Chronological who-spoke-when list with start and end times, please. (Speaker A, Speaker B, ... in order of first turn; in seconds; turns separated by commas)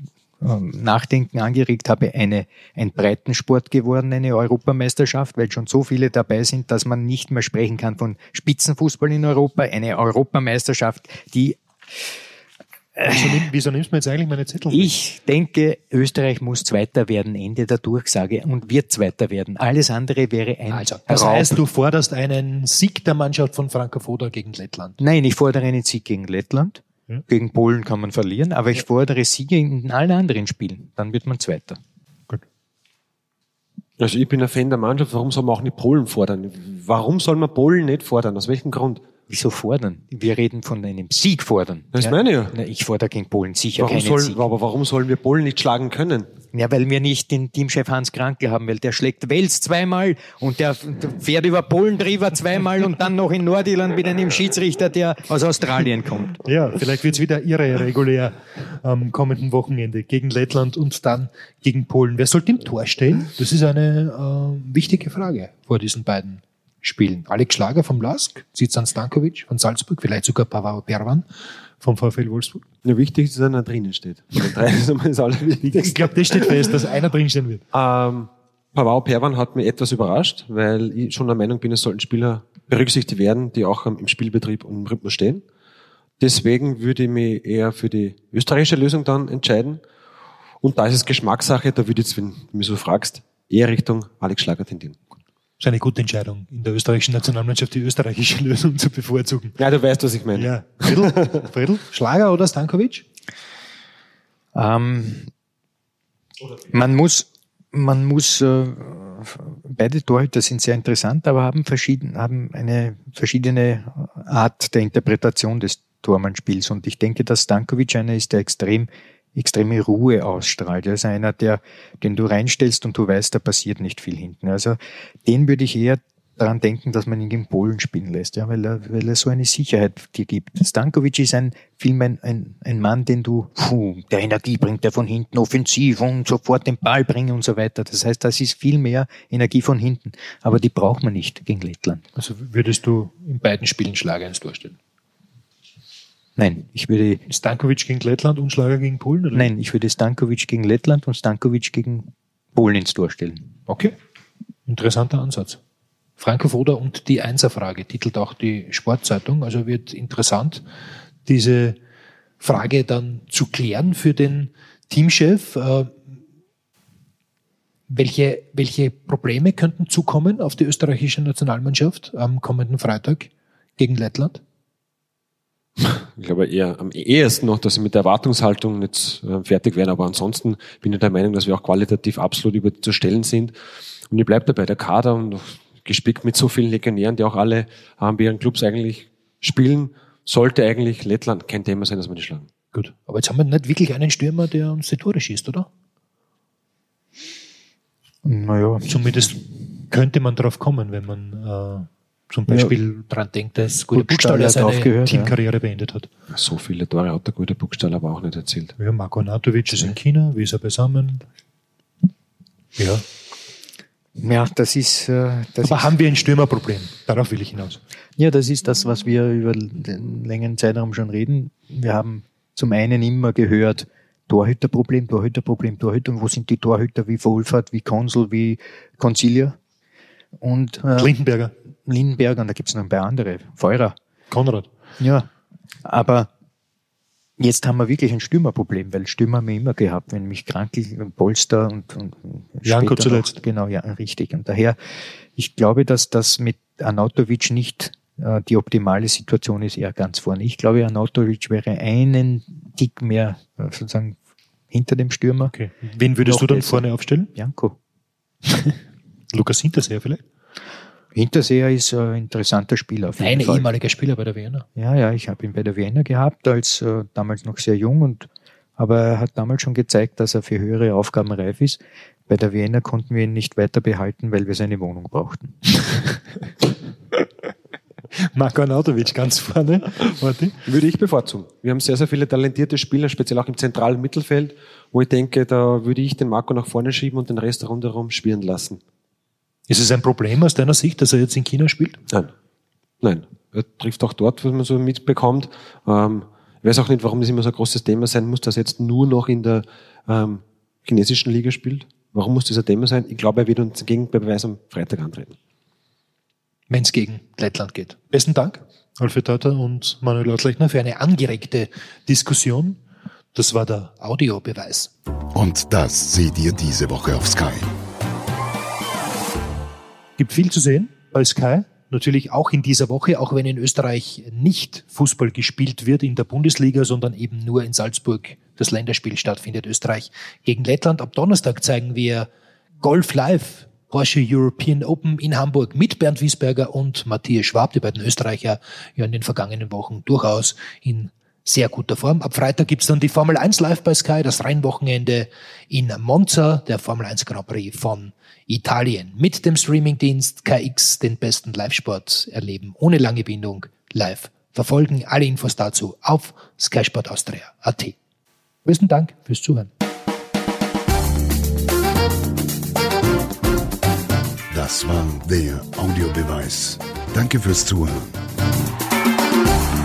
Speaker A: 0.4-11.6, Speaker A: 13.0-13.3, Speaker B: 13.1-14.9, Speaker A: 14.7-21.6, Speaker B: 20.7-25.0, Speaker A: 25.0-31.8, Speaker C: 34.0-39.0, Speaker A: 39.3-44.4, Speaker C: 41.9-42.5, Speaker C: 43.8-46.3, Speaker A: 46.5-56.4, Speaker B: 56.4-71.3, Speaker B: 71.8-72.6, Speaker C: 72.8-76.6, Speaker B: 75.7-77.6, Speaker C: 77.7-85.4, Speaker C: 86.2-89.8, Speaker C: 90.6-95.0, Speaker B: 95.6-99.5, Speaker C: 99.6-101.4, Speaker B: 100.3-103.0, Speaker A: 104.5-105.3, Speaker A: 106.7-142.0, Speaker B: 142.2-144.8, Speaker A: 146.4-147.2, Speaker B: 147.3-149.5, Speaker A: 149.3-153.5, Speaker B: 153.7-153.9, Speaker B: 154.7-155.6, Speaker B: 156.2-160.6, Speaker B: 161.2-161.8, Speaker B: 162.4-166.0, Speaker B: 167.9-174.4, Speaker C: 175.8-183.5, Speaker C: 184.1-192.5, Speaker B: 192.7-195.7, Speaker A: 198.2-199.4, Speaker B: 198.9-199.4, Speaker B: 199.9-206.1, Speaker A: 203.9-205.3, Speaker C: 206.3-208.7, Speaker B: 208.8-211.2, Speaker B: 212.8-213.0, Speaker A: 214.2-215.9, Speaker B: 215.6-217.8, Speaker A: 218.2-229.6, Speaker A: 230.4-231.1, Speaker B: 230.9-231.5, Speaker A: 231.8-234.0, Speaker B: 234.3-234.7, Speaker A: 235.0-235.3, Speaker A: 235.8-236.3, Speaker A: 237.4-254.2, Speaker B: 242.6-243.4, Speaker A: 254.7-255.5, Speaker B: 255.5-257.3, Speaker A: 256.2-257.8, Speaker B: 258.4-258.8, Speaker B: 259.3-260.2, Speaker A: 261.1-263.7, Speaker B: 263.2-264.6, Speaker A: 264.8-275.6, Speaker B: 275.8-276.2, Speaker B: 278.3-280.6, Speaker C: 280.6-288.8, Speaker B: 289.7-292.0, Speaker C: 293.0-305.3, Speaker B: 306.7-312.8, Speaker B: 313.3-314.9, Speaker D: 315.3-317.7, Speaker B: 320.2-332.3, Speaker B: 332.8-357.9, Speaker B: 358.6-359.7, Speaker D: 364.5-368.2